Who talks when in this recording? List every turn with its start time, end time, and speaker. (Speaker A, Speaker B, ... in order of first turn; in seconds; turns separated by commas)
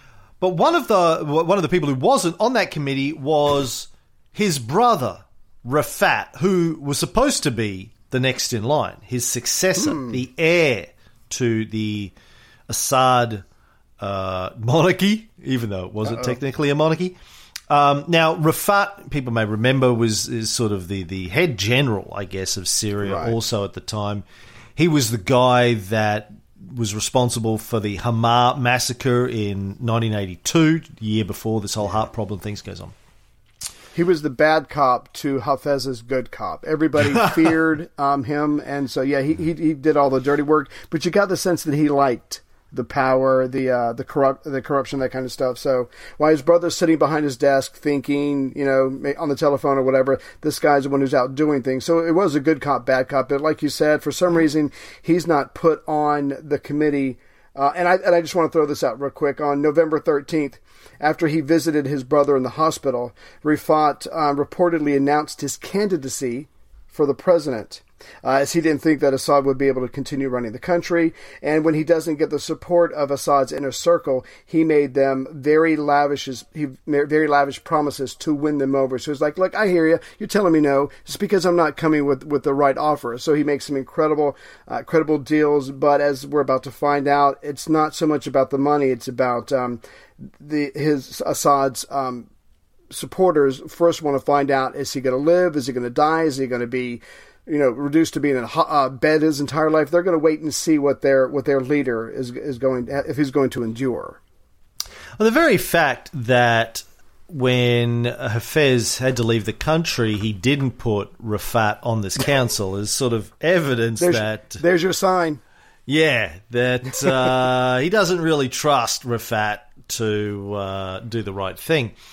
Speaker A: 0.4-12.1, Speaker B: 9.8-10.2, Speaker A: 12.7-13.4, Speaker A: 14.0-17.1, Speaker B: 16.1-16.4, Speaker A: 17.7-24.2, Speaker B: 23.0-23.3, Speaker A: 24.8-32.9, Speaker B: 33.9-92.3, Speaker A: 37.1-37.4, Speaker B: 92.9-104.2, Speaker A: 105.2-114.6, Speaker B: 114.0-115.4, Speaker A: 115.9-121.9